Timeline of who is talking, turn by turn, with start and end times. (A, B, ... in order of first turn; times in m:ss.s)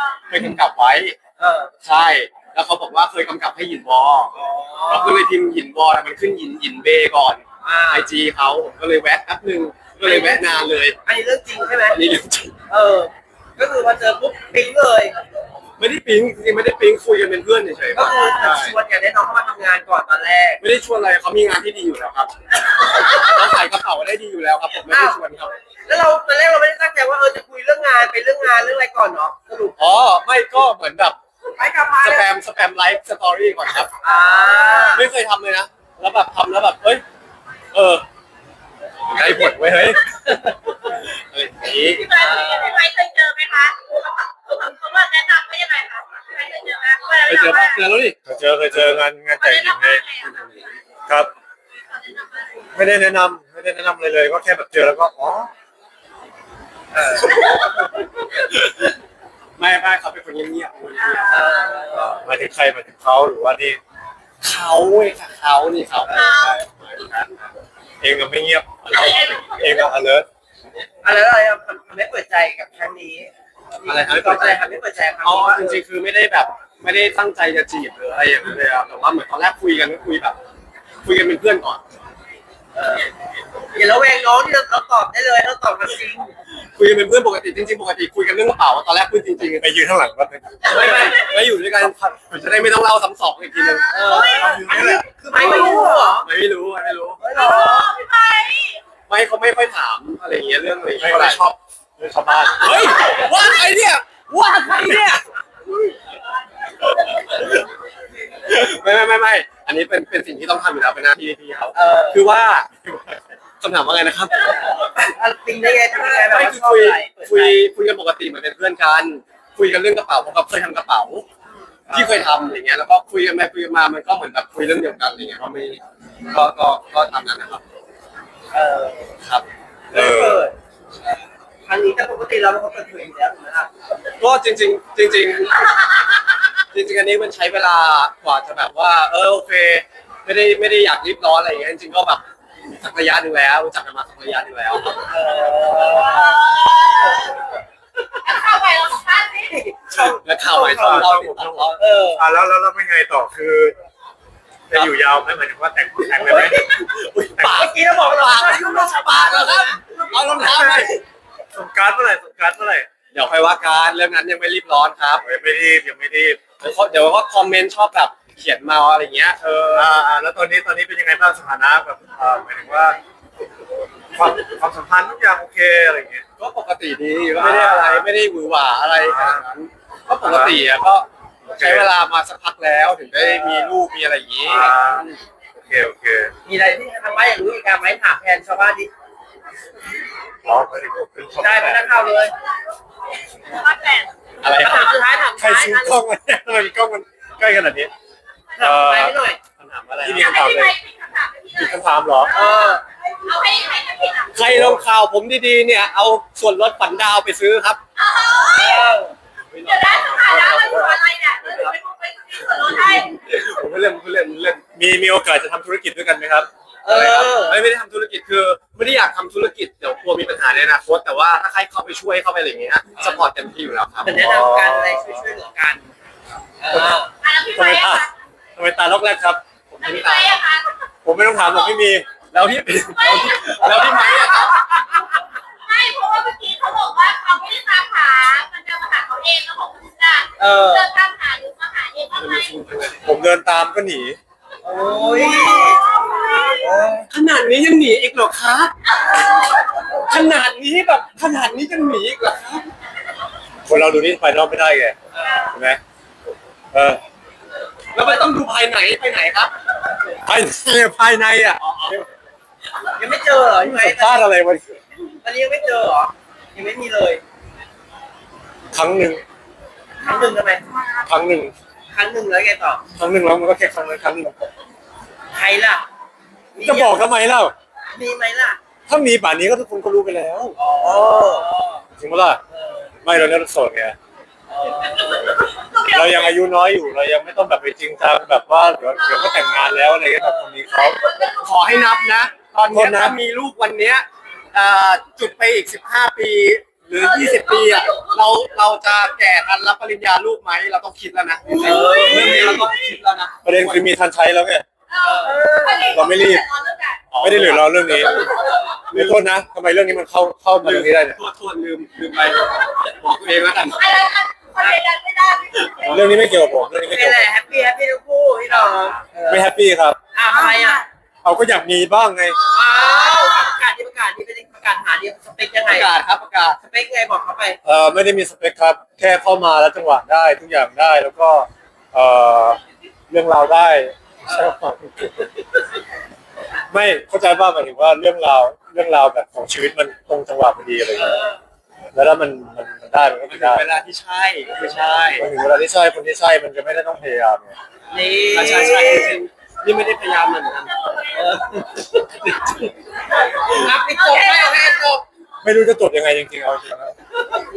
0:00.3-0:01.2 A
0:01.4-0:01.7 B
0:01.8-0:04.4 A
0:04.3-0:05.2 B
0:04.9-0:11.0 A
0:07.6-0:08.1 B
0:10.0-0:12.0 B
0:11.9-0:12.6 A
0:12.7-0:15.2 B
0:15.8-0:18.8 A
0:17.9-0:20.6 B
0:20.6-0:25.5 A
0:24.9-0:25.2 B
0:25.9-0:29.8 B
0:29.8-0:31.2 A
0:31.6-0:32.2 B
0:32.0-0:33.9 A
0:34.0-0:35.0 B
0:34.8-0:37.0 A
0:37.7-0:38.0 A
0:39.1-0:40.5 A
0:41.1-0:42.1 A
0:41.8-0:47.8 C
0:42.2-0:42.8 B
0:47.2-0:48.2 A
0:48.2-0:50.0 D
0:48.7-0:49.0 A
0:49.4-0:50.3 C
0:50.2-0:50.6 A
0:52.7-0:55.5 D
0:56.9-0:57.4 B
0:58.2-0:58.9 A
0:59.6-1:01.5 A
1:01.3-1:02.2 B
1:01.9-1:03.8 D
1:04.4-1:07.4 A
1:06.1-1:06.6 C
1:08.0-1:10.2 D
1:11.0-1:13.3 B
1:13.8-1:15.8 B
1:13.8-1:20.4 A
1:21.0-1:21.8 A
1:22.8-1:23.1 B
1:23.7-1:26.3 B
1:26.8-1:29.7 A
1:29.6-1:31.0 D
1:30.6-1:34.2 A
1:30.7-1:31.2 B
1:33.9-1:34.7 C
1:33.9-1:36.3 B
1:34.2-1:36.1 D
1:35.3-1:37.2 A
1:37.2-1:37.9 B
1:37.3-1:38.8 C
1:39.1-1:41.4 A
1:41.0-1:43.1 D
1:42.6-1:45.2 A
1:46.9-1:47.6 A
1:48.4-1:53.0 A
1:51.7-1:52.2 B
1:53.6-1:54.9 A
1:54.8-1:57.6 B
1:55.9-2:01.2 A
2:01.9-2:02.2 B
2:01.9-2:07.6 A
2:08.5-2:09.1 B
2:09.2-2:09.4 A
2:09.9-2:10.5 D
2:09.9-2:10.5 B
2:11.6-2:13.7 B
2:14.2-2:15.9 A
2:16.6-2:25.0 A
2:25.1-2:26.4 B
2:26.1-2:27.4 C
2:28.2-2:29.6 C
2:29.5-2:30.9 B
2:30.0-2:31.8 A
2:30.5-2:33.7 D
2:31.8-2:32.2 B
2:34.7-2:36.6 D
2:36.2-2:36.6 B
2:36.3-2:41.0 A
2:37.4-2:37.7 D
2:37.5-2:40.5 B
2:40.3-2:40.9 D
2:41.5-2:42.9 D
2:43.1-2:45.2 A
2:45.2-2:46.4 D
2:46.6-2:49.9 A
2:49.7-2:53.0 D
2:54.1-2:56.2 D
2:56.4-3:05.2 A
2:57.3-2:58.1 D
2:59.0-2:59.4 D
3:00.2-3:00.6 D
3:01.4-3:01.9 D
3:03.2-3:03.8 D
3:04.4-3:06.3 D
3:06.4-3:08.9 B
3:10.4-3:12.0 D
3:11.4-3:12.3 B
3:13.4-3:14.1 C
3:14.4-3:14.9 A
3:14.5-3:15.9 B
3:15.4-3:17.9 D
3:18.6-3:19.4 B
3:18.6-3:19.2 D
3:19.6-3:20.4 A
3:20.0-3:20.7 D
3:20.1-3:24.3 C
3:21.5-3:22.4 D
3:22.3-3:22.8 B
3:24.3-3:27.8 A
3:24.3-3:24.8 D
3:28.0-3:28.9 C
3:28.5-3:29.1 B
3:29.5-3:30.8 A
3:29.6-3:33.1 C
3:30.3-3:31.0 D
3:31.4-3:31.7 A
3:32.9-3:34.6 A
3:34.7-3:36.5 D
3:36.8-3:37.6 B
3:36.9-3:44.2 A
3:44.0-3:45.9 B
3:44.1-3:45.2 D
3:46.6-3:47.1 B
3:46.7-3:47.0 D
3:47.2-3:48.1 C
3:47.5-3:49.4 D
3:49.7-3:50.4 A
3:49.8-3:50.8 C
3:51.0-3:52.0 D
3:52.3-3:54.6 A
3:53.0-4:02.5 C
4:00.4-4:00.9 B
4:02.1-4:03.1 A
4:03.0-4:04.2 D
4:04.6-4:05.9 B
4:05.2-4:06.6 C
4:06.6-4:07.1 D
4:07.1-4:08.7 A
4:09.9-4:12.6 A
4:13.6-4:15.0 D
4:15.5-4:15.8 D
4:16.7-4:17.0 D
4:17.9-4:19.5 A
4:20.2-4:22.0 D
4:21.6-4:22.0 A
4:22.9-4:24.2 B
4:23.7-4:24.8 D
4:25.2-4:27.2 B
4:28.7-4:29.2 D
4:30.0-4:30.8 B
4:31.0-4:31.5 D
4:31.9-4:32.8 B
4:32.9-4:34.4 D
4:35.3-4:35.9 B
4:36.5-4:37.0 B
4:36.6-4:37.5 D
4:37.9-4:38.6 B
4:38.9-4:40.6 D
4:40.6-4:41.8 B
4:40.8-4:41.4 A
4:42.0-4:42.4 D
4:42.5-4:42.9 B
4:43.0-4:44.0 D
4:44.5-4:45.2 B
4:45.2-4:45.9 C
4:45.8-4:51.0 D
4:50.2-4:50.5 B
4:51.2-5:03.8 A
4:52.7-4:53.2 D
4:57.3-4:57.8 C
5:01.5-5:02.7 B
5:01.8-5:02.6 D
5:03.4-5:04.6 D
5:04.9-5:07.0 C
5:05.0-5:06.1 B
5:05.9-5:06.4 D
5:07.1-5:09.2 A
5:07.2-5:08.3 D
5:08.9-5:11.2 D
5:10.6-5:13.9 A
5:13.7-5:15.9 C
5:15.8-5:17.3 D
5:16.7-5:19.5 B
5:19.3-5:20.0 D
5:20.1-5:20.8 B
5:21.2-5:22.4 D
5:22.5-5:25.9 B
5:25.6-5:26.6 A
5:26.6-5:27.6 B
5:27.6-5:35.4 D
5:34.3-5:34.5 B
5:36.7-5:41.2 D
5:40.9-5:41.4 B
5:41.9-5:43.7 D
5:43.3-5:45.3 A
5:45.2-5:47.6 D
5:47.9-5:49.2 B
5:48.3-5:51.1 A
5:51.1-5:52.0 B
5:52.2-5:52.7 A
5:53.3-5:55.0 B
5:53.8-5:54.8 C
5:55.4-5:56.9 D